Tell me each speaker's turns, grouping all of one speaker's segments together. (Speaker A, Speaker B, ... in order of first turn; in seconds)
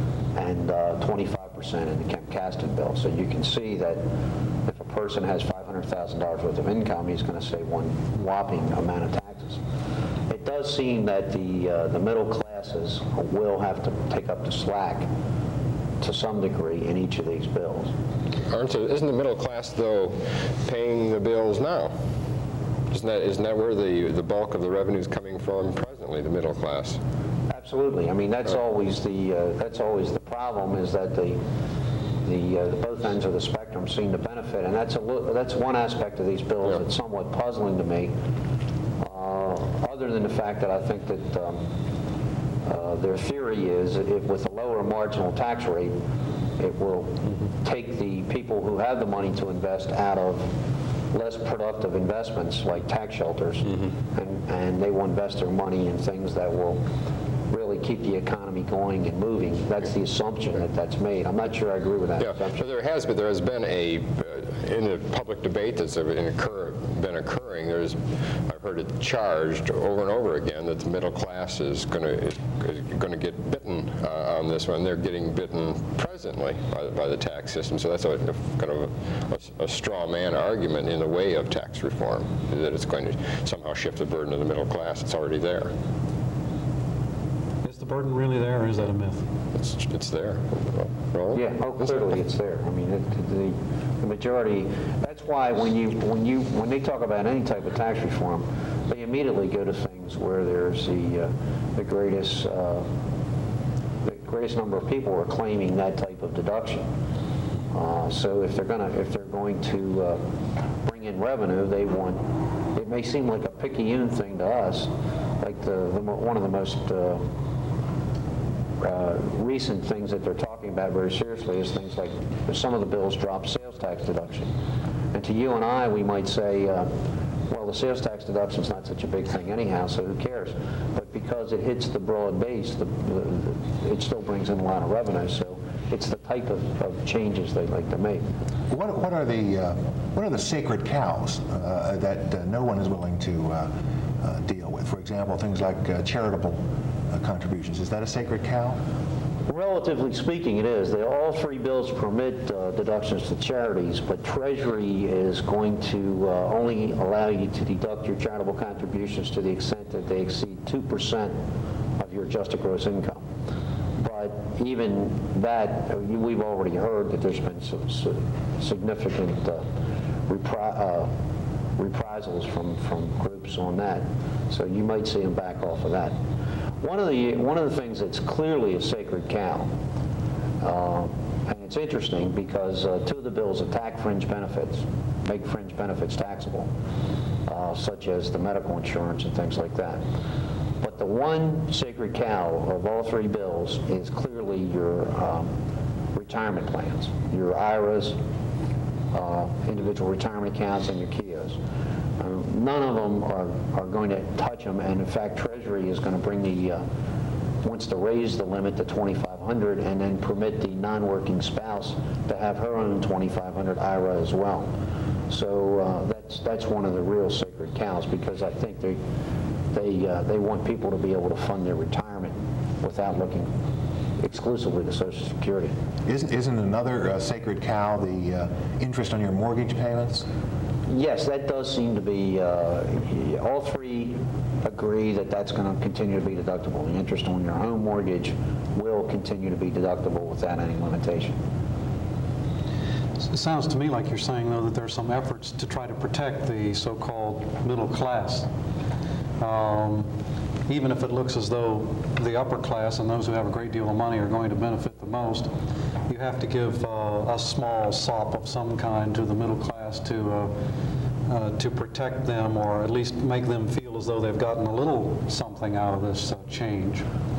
Speaker A: 0.3-4.0, 4.7-9.6, 10.3-15.1, 16.0-17.9, 27.5-31.4, 32.2-38.1, 39.0-41.6, 42.7-46.0, 46.6-50.5, 51.1-56.8, 57.5-62.6, 91.3-102.9, 104.0-106.9, 107.7-110.2, 110.8-112.2, 112.7-117.3, 118.8-124.5, 125.1-126.9, 127.5-138.3, 149.5-161.4, 162.0-163.3, 164.0-169.7, 170.3-171.1, 171.8-176.2, 176.8-179.7, 180.6-186.7, 187.5-190.0, 190.8-195.5, 196.1-198.2, 199.1-201.6, 202.2-206.8, 207.6-214.7, 215.3-219.0, 219.7-223.5, 224.2-225.8, 230.9-241.4
Speaker B: 18.5-21.9, 22.9-27.0, 62.2-85.7, 89.5-91.4
Speaker C: 87.6-89.2, 243.3-248.5, 249.4-250.1, 250.7-255.5, 256.1-260.6, 261.3-267.1
Speaker D: 138.7-148.8, 226.1-230.3